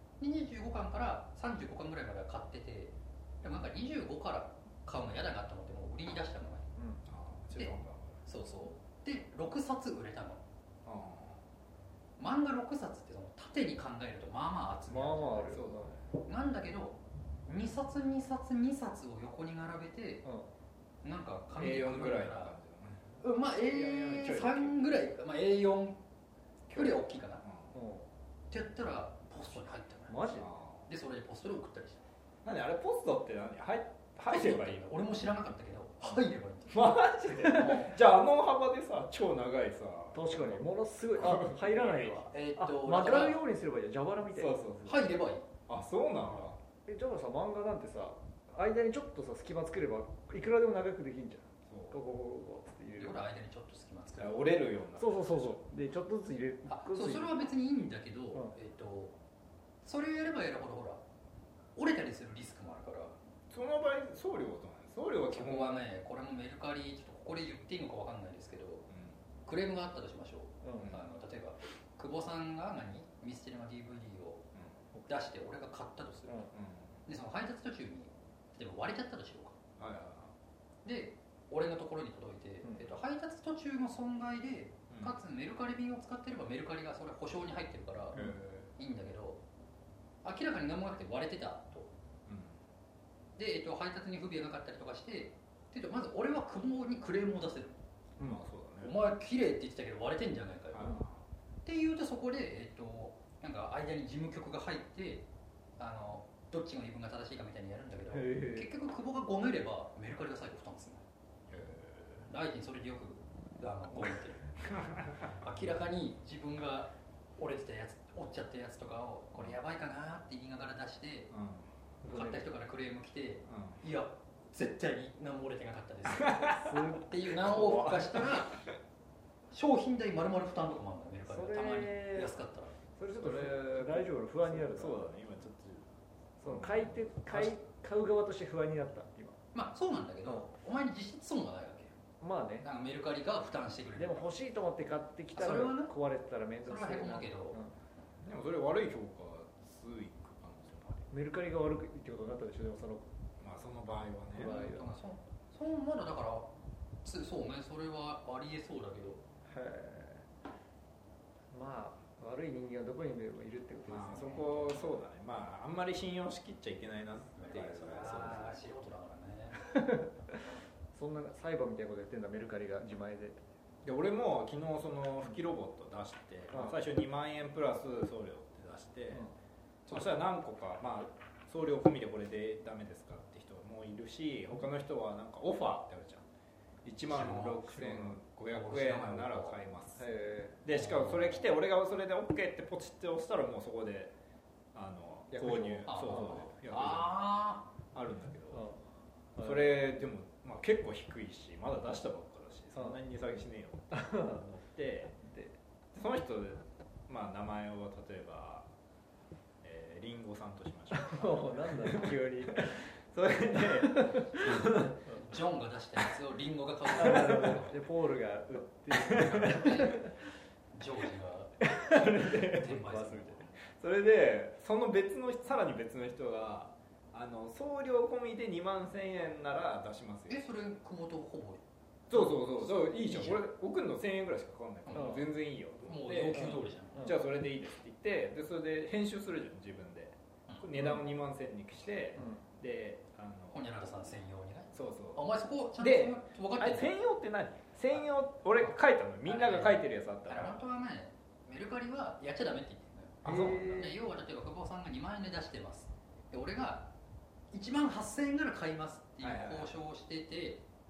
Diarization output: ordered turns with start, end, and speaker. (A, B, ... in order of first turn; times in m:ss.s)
0:00.2-0:06.7 A
0:07.1-0:08.2 B
0:07.6-0:10.4 A
0:10.9-0:11.4 B
0:12.2-0:15.6 A
0:14.9-0:16.0 C
0:15.5-0:16.0 B
0:16.2-0:20.3 A
0:20.2-0:20.5 C
0:21.0-0:22.6 A
0:21.6-0:24.8 B
0:23.2-0:26.0 A
0:26.7-0:27.4 A
0:27.4-0:27.8 B
0:27.7-0:28.1 C
0:28.5-0:30.3 A
0:30.1-0:30.5 C
0:30.4-0:30.9 B
0:30.9-0:32.0 A
0:32.4-0:35.0 B
0:34.3-0:38.0 A
0:36.7-0:42.2 B
0:40.1-0:44.6 C
0:42.2-0:43.4 A
0:44.3-0:45.1 B
0:44.8-0:45.5 A
0:45.7-0:46.6 B
0:46.8-0:53.2 C
0:51.7-0:52.0 B
0:53.0-0:54.6 A
0:54.2-0:55.7 B
0:55.0-0:57.4 C
0:56.7-0:59.2 A
0:59.8-1:01.0 A
1:01.8-1:03.2 A
1:03.5-1:05.8 B
1:05.3-1:08.9 A
1:08.9-1:09.2 B
1:09.5-1:14.4 A
1:10.6-1:11.0 C
1:10.8-1:11.1 B
1:15.1-1:16.5 A
1:16.5-1:16.9 B
1:17.1-1:19.6 A
1:19.8-1:20.3 B
1:20.8-1:28.2 A
1:22.6-1:23.0 C
1:24.9-1:25.2 B
1:28.1-1:28.7 B
1:28.8-1:29.4 A
1:30.2-1:31.9 A
1:32.3-1:32.6 B
1:33.4-1:37.8 A
1:38.2-1:39.0 B
1:38.8-1:41.0 A
1:40.7-1:41.2 B
1:41.6-1:45.3 A
1:45.8-1:51.0 A
1:48.1-1:48.7 C
1:51.5-1:52.3 B
1:52.3-1:54.4 A
1:54.6-1:55.4 B
1:55.4-2:01.3 A
2:01.3-2:01.7 B
2:02.0-2:02.4 C
2:02.1-2:08.6 A
2:03.5-2:03.8 B
2:06.1-2:08.4 B
2:06.5-2:08.0 C
2:09.5-2:12.8 A
2:11.3-2:12.3 C
2:13.0-2:15.1 C
2:13.2-2:17.6 B
2:16.4-2:19.4 C
2:19.5-2:22.0 A
2:22.2-2:22.7 C
2:22.6-2:24.3 A
2:24.0-2:27.7 C
2:25.4-2:25.9 A
2:26.6-2:27.6 A
2:28.2-2:31.1 B
2:31.1-2:33.1 C
2:33.4-2:34.5 B
2:34.3-2:34.9 C
2:34.4-2:36.5 A
2:37.0-2:39.2 A
2:39.5-2:40.3 C
2:41.5-2:44.9 C
2:43.9-2:48.7 B
2:47.4-2:49.6 A
2:49.6-2:50.4 C
2:50.9-2:53.4 C
2:53.8-2:59.3 B
2:56.5-2:56.8 C
2:59.9-3:06.2 B
3:06.8-3:10.1 B
3:07.1-3:09.6 A
3:10.0-3:10.6 C
3:10.6-3:14.1 B
3:10.7-3:11.5 A
3:14.7-3:17.2 B
3:15.3-3:16.4 C
3:15.9-3:17.7 A
3:17.9-3:18.7 B
3:18.5-3:18.8 C
3:19.4-3:19.7 C
3:19.4-3:25.2 B
3:23.9-3:24.4 C
3:25.2-3:25.6 C
3:25.9-3:28.7 B
3:29.6-3:35.0 B
3:30.9-3:32.8 C
3:33.5-3:35.2 C
3:35.1-3:37.8 A
3:36.9-3:40.1 C
3:38.9-3:39.9 B
3:39.4-3:40.0 A
3:40.7-3:41.7 A
3:41.6-3:43.5 C
3:41.7-3:42.8 B
3:42.2-3:43.5 A
3:43.6-3:50.5 B
3:50.3-3:53.4 A
3:52.1-4:03.7 B
3:54.9-3:55.2 A
3:55.0-3:55.2 C
3:55.8-3:57.1 A
3:56.4-3:57.2 C
4:03.5-4:06.9 A
4:04.7-4:10.6 B
4:09.2-4:16.9 A
4:13.2-4:13.7 B
4:13.2-4:14.0 C
4:17.5-4:20.6 A
4:19.2-4:19.8 B